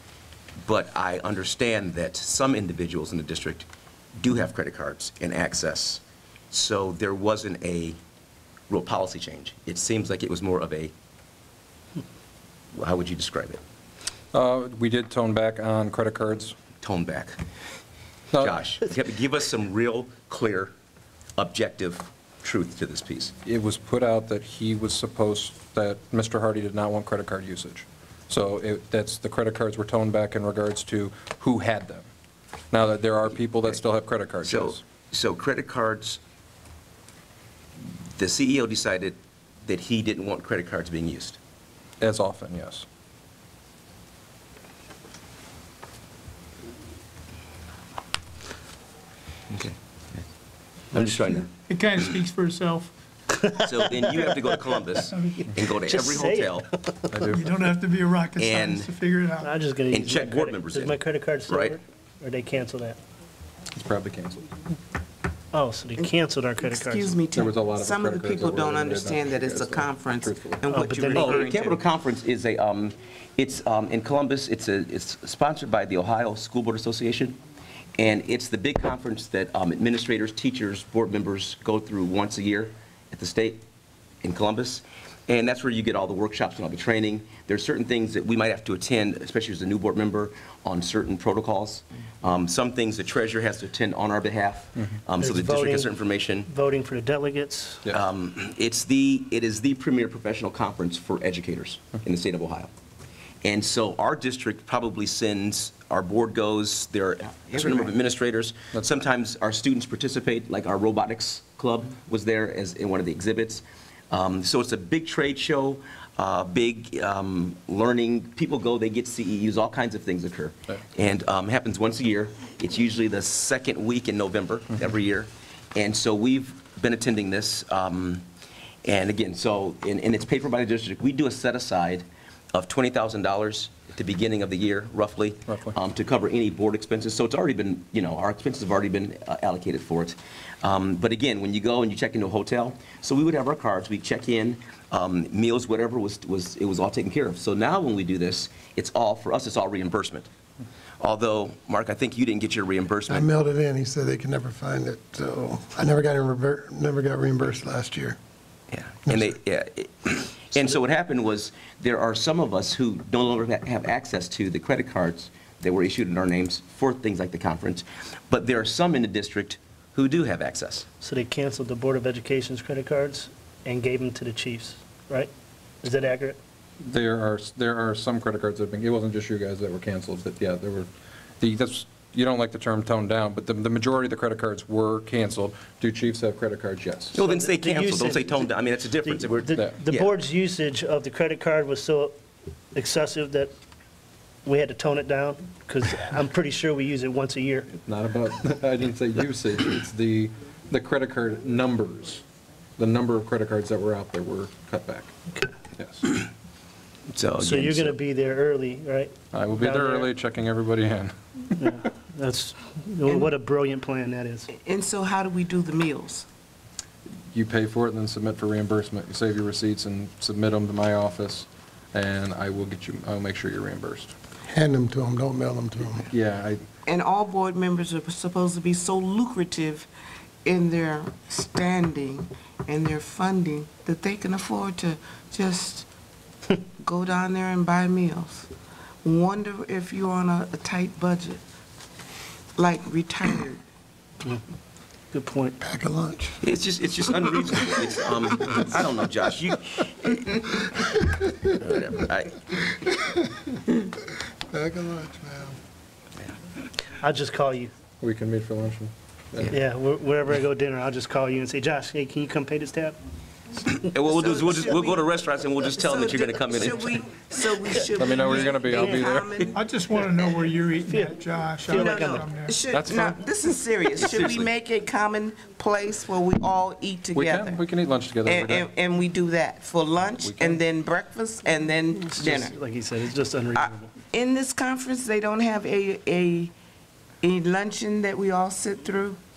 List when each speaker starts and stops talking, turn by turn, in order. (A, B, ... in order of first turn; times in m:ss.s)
0:00.6-0:03.7 A
0:04.2-0:08.0 A
0:08.7-0:10.9 A
0:12.7-0:13.6 A
0:14.3-0:16.6 B
0:16.8-0:17.4 A
0:18.4-0:20.7 A
0:21.4-0:23.3 A
0:23.4-0:32.1 B
0:32.7-0:34.8 B
0:34.4-0:36.2 A
0:38.2-0:41.4 A
0:42.0-0:42.9 B
0:49.5-0:50.2 A
0:50.9-0:51.5 A
0:51.3-0:52.9 C
0:53.4-0:54.6 D
0:53.6-0:56.7 A
0:55.7-0:57.1 D
0:57.1-0:57.5 B
0:57.3-0:59.5 C
0:58.4-0:58.9 A
0:59.4-1:03.0 D
0:59.9-1:01.8 A
1:03.7-1:04.4 B
1:05.5-1:07.2 D
1:06.0-1:11.8 E
1:07.3-1:10.7 B
1:10.7-1:11.5 D
1:11.1-1:17.4 A
1:18.0-1:23.6 A
1:24.2-1:36.5 A
1:35.2-1:37.8 D
1:37.9-1:42.7 A
1:43.4-2:08.2 A
1:47.5-1:47.8 E
2:08.8-2:30.3 A
2:31.0-2:33.3 A
2:33.1-2:38.2 F
2:38.7-2:50.9 A
2:51.0-2:55.3 D
2:55.8-2:56.4 D
2:56.8-3:00.9 B
3:01.4-3:07.2 B
3:07.1-3:10.1 A
3:07.2-3:12.2 D
3:12.7-3:13.5 D
3:14.4-3:17.7 D
3:17.8-3:22.2 B
3:22.8-3:25.1 B
3:25.8-3:26.2 B
3:27.1-3:28.0 A
3:27.4-3:30.1 D
3:29.3-3:31.1 B
3:31.6-3:34.5 D
3:33.1-3:33.3 E
3:34.5-3:36.3 E
3:37.3-3:44.1 B
3:44.5-3:46.0 F
3:46.1-3:46.6 B
3:46.9-3:49.9 E
3:50.4-3:55.9 E
3:56.8-3:58.5 E
3:59.0-4:01.4 E
4:02.6-4:03.6 E
4:05.1-4:05.6 D
4:05.6-4:06.4 F
4:06.4-4:10.6 A
4:11.4-4:12.7 A
4:14.5-4:15.6 F
4:17.0-4:17.7 D
4:18.0-4:19.6 B
4:19.5-4:23.0 D
4:23.7-4:27.0 A
4:24.1-4:25.0 E
4:25.6-4:29.6 E
4:28.0-4:29.4 B
4:29.5-4:33.1 C
4:30.9-4:32.3 D
4:31.7-4:37.6 E
4:32.7-4:33.1 B
4:34.0-4:34.5 A
4:37.1-4:38.7 B
4:38.2-4:42.6 E
4:40.2-4:40.6 B
4:42.0-4:43.9 D
4:43.6-4:46.5 E
4:47.2-4:49.2 E